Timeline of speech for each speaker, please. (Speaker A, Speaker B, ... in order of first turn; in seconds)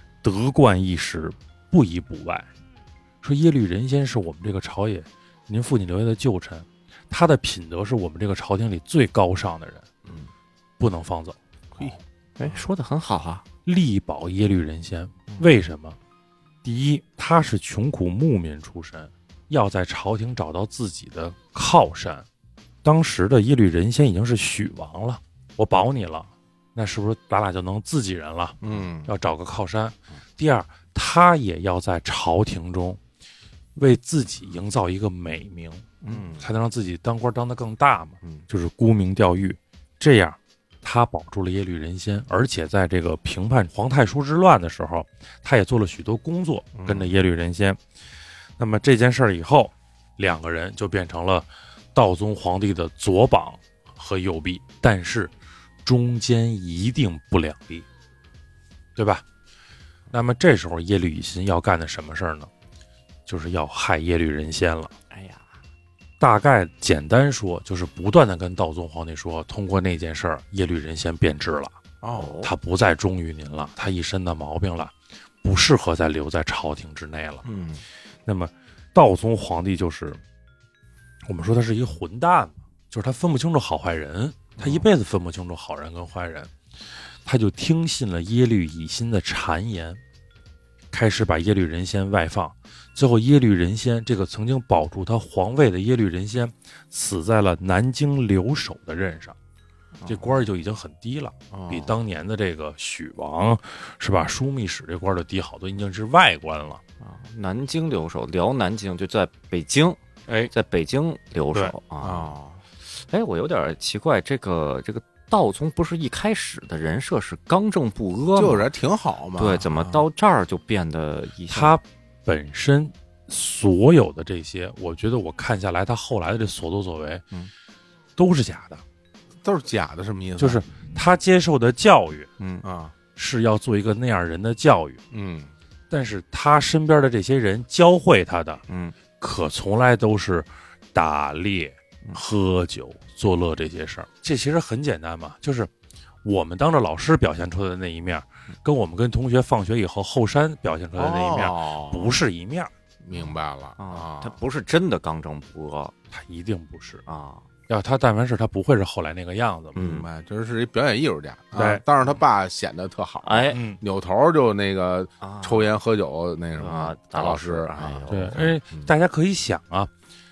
Speaker A: 0.2-2.5, 3.2-9.9, 10.8-11.4, 13.7-16.0, 16.6-22.3, 22.8-33.0, 33.8-35.9, 36.4-47.8, 48.6-55.3, 55.8-57.9, 59.0-59.2, 60.1-62.5, 63.3-64.9, 66.2-71.8, 72.4-77.4, 78.3-80.2, 81.3-86.5, 87.2-90.0, 90.9-99.3, 100.1-106.8, 121.5-127.2, 128.2-128.8, 130.4-132.3, 133.2-135.0, 135.9-138.6, 139.2-145.7, 146.2-152.7, 156.1-157.0, 157.7-159.8, 161.6-161.8, 163.5-163.8, 168.1-169.9
Speaker B: 11.8-12.6, 28.6-29.1, 36.1-36.5, 46.8-47.2, 72.0-72.4, 77.4-77.8, 84.6-84.9, 101.5-101.9, 112.0-112.6, 118.3-120.1, 129.4-130.6, 132.6-132.9, 135.1-135.5, 151.0-152.2, 153.0-154.4, 159.8-168.9
Speaker C: 11.8-13.4, 36.0-36.3, 65.1-65.5, 72.1-72.5, 100.0-100.4, 107.0-110.0, 110.5-112.4, 113.0-118.7, 119.4-121.8, 132.4-132.6, 138.7-138.9, 153.1-155.9, 157.1-157.4, 159.8-160.1, 163.2-163.6, 165.2-165.7, 166.6-168.5